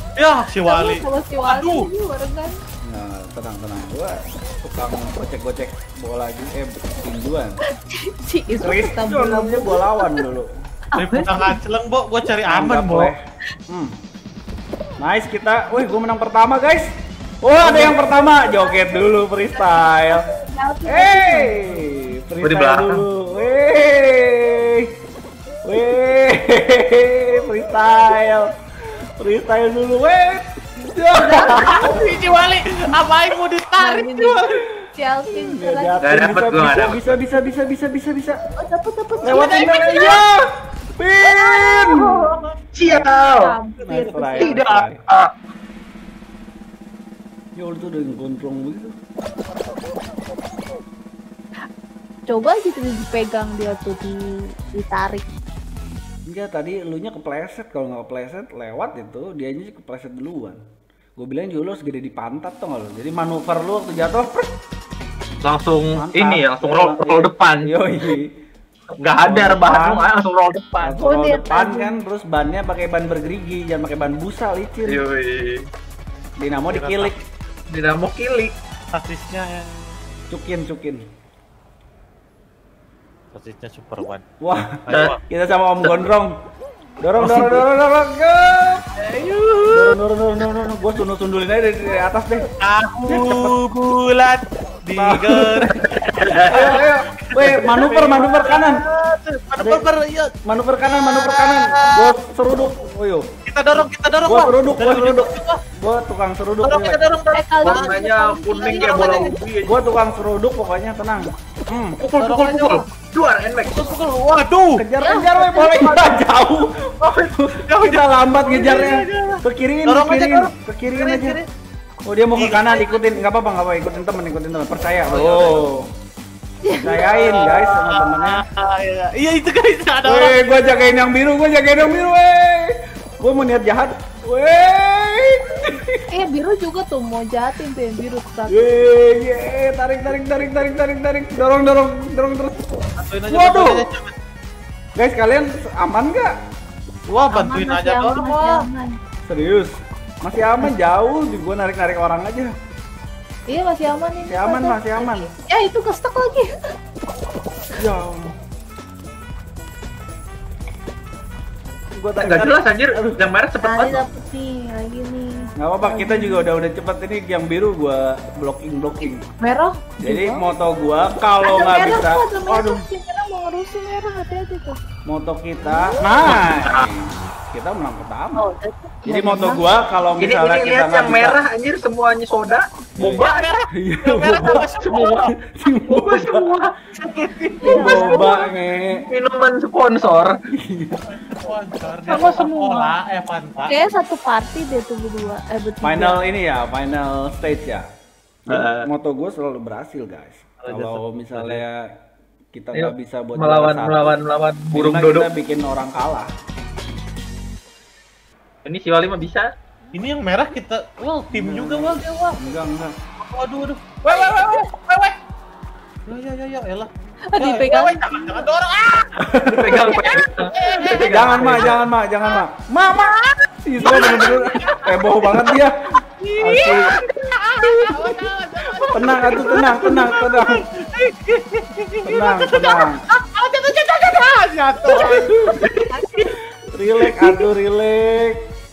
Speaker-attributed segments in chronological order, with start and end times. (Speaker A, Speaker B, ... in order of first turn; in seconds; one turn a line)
Speaker A: 0.1-1.9
Speaker B: 0.6-2.5
Speaker C: 2.8-7.6
Speaker B: 7.8-10.2
Speaker C: 8.6-10.5
Speaker B: 10.9-11.6
Speaker A: 10.9-13.1
Speaker C: 12.5-13.9
Speaker C: 15.0-20.2
Speaker B: 17.9-18.7
Speaker B: 19.6-21.8
Speaker C: 20.9-24.9
Speaker D: 22.4-23.0
Speaker C: 25.6-28.5
Speaker C: 29.2-32.0
Speaker B: 31.2-31.8
Speaker A: 31.6-34.4
Speaker B: 33.8-36.0
Speaker C: 35.3-38.4
Speaker D: 36.0-37.2
Speaker B: 38.6-40.2
Speaker C: 39.2-40.4
Speaker C: 41.0-42.3
Speaker D: 42.7-43.6
Speaker C: 42.8-43.1
Speaker B: 43.4-44.6
Speaker C: 43.8-45.0
Speaker D: 44.4-45.3
Speaker C: 47.5-48.9
Speaker B: 52.3-55.2
Speaker C: 56.3-60.6
Speaker C: 61.2-64.5
Speaker D: 65.4-67.7
Speaker C: 65.9-68.3
Speaker D: 69.0-70.9
Speaker C: 69.2-70.1
Speaker C: 70.8-75.0
Speaker B: 71.0-72.0
Speaker D: 74.8-75.6
Speaker C: 76.4-77.2
Speaker A: 76.7-77.1
Speaker D: 77.7-78.5
Speaker A: 78.9-80.0
Speaker C: 80.3-81.0
Speaker A: 83.3-84.2
Speaker C: 84.4-86.4
Speaker A: 84.9-85.2
Speaker C: 87.0-88.8
Speaker A: 87.2-87.6
Speaker A: 89.0-90.0
Speaker C: 89.7-92.5
Speaker A: 92.6-95.8
Speaker C: 93.1-93.6
Speaker C: 94.9-95.6
Speaker D: 95.6-96.8
Speaker A: 96.4-100.3
Speaker C: 96.4-98.8
Speaker C: 99.6-99.9
Speaker C: 100.4-103.3
Speaker A: 100.9-102.2
Speaker A: 103.5-105.6
Speaker C: 104.2-107.0
Speaker A: 106.6-108.0
Speaker B: 107.3-109.3
Speaker D: 107.6-109.7
Speaker A: 108.6-109.4
Speaker C: 109.6-112.0
Speaker D: 112.0-113.9
Speaker A: 112.1-112.8
Speaker A: 113.7-114.8
Speaker C: 114.8-121.4
Speaker B: 115.0-116.0
Speaker A: 117.0-121.5
Speaker C: 122.0-125.9
Speaker A: 122.3-123.2
Speaker A: 125.1-125.7
Speaker C: 126.8-128.4
Speaker A: 126.8-130.7
Speaker C: 130.0-136.0
Speaker B: 136.1-138.8
Speaker C: 138.5-142.6
Speaker A: 143.0-144.1
Speaker C: 143.3-143.9
Speaker C: 145.0-146.3
Speaker A: 147.1-148.7
Speaker B: 147.3-148.9
Speaker C: 149.2-152.5
Speaker B: 153.5-156.5
Speaker C: 154.3-155.3
Speaker C: 157.7-158.3
Speaker C: 161.9-163.2
Speaker D: 162.2-164.0
Speaker B: 163.6-166.5
Speaker C: 165.6-169.3
Speaker B: 169.4-170.4
Speaker C: 170.0-172.8
Speaker B: 171.4-174.8
Speaker C: 175.1-178.4
Speaker D: 176.2-176.8
Speaker B: 178.4-179.6
Speaker C: 179.1-181.4
Speaker D: 180.2-183.7
Speaker C: 183.0-184.7
Speaker A: 183.2-185.3
Speaker D: 184.4-185.3
Speaker C: 185.3-186.6
Speaker D: 185.8-186.7
Speaker A: 186.9-188.4
Speaker B: 187.6-188.5
Speaker C: 187.6-189.0
Speaker D: 189.1-190.3
Speaker C: 190.6-191.1
Speaker A: 191.1-193.8
Speaker B: 192.1-192.9
Speaker B: 193.7-196.2
Speaker C: 195.8-197.8
Speaker C: 198.5-201.9
Speaker D: 198.5-198.9
Speaker A: 200.6-201.6
Speaker C: 202.5-204.1
Speaker D: 202.7-205.3
Speaker C: 204.7-206.3
Speaker D: 208.6-209.5
Speaker A: 209.9-212.4
Speaker C: 211.3-212.9
Speaker A: 213.2-215.2
Speaker A: 216.1-219.1
Speaker B: 217.3-218.4
Speaker C: 219.2-220.0
Speaker D: 219.5-221.9
Speaker A: 220.0-221.7
Speaker C: 221.1-223.1
Speaker A: 223.2-225.5
Speaker C: 223.7-225.8
Speaker A: 226.2-235.6
Speaker C: 226.4-226.9
Speaker D: 226.6-226.9
Speaker D: 227.6-227.9
Speaker C: 228.8-230.6
Speaker C: 232.0-233.0
Speaker C: 235.1-235.6
Speaker D: 235.6-235.9
Speaker B: 235.9-236.3
Speaker C: 236.6-238.4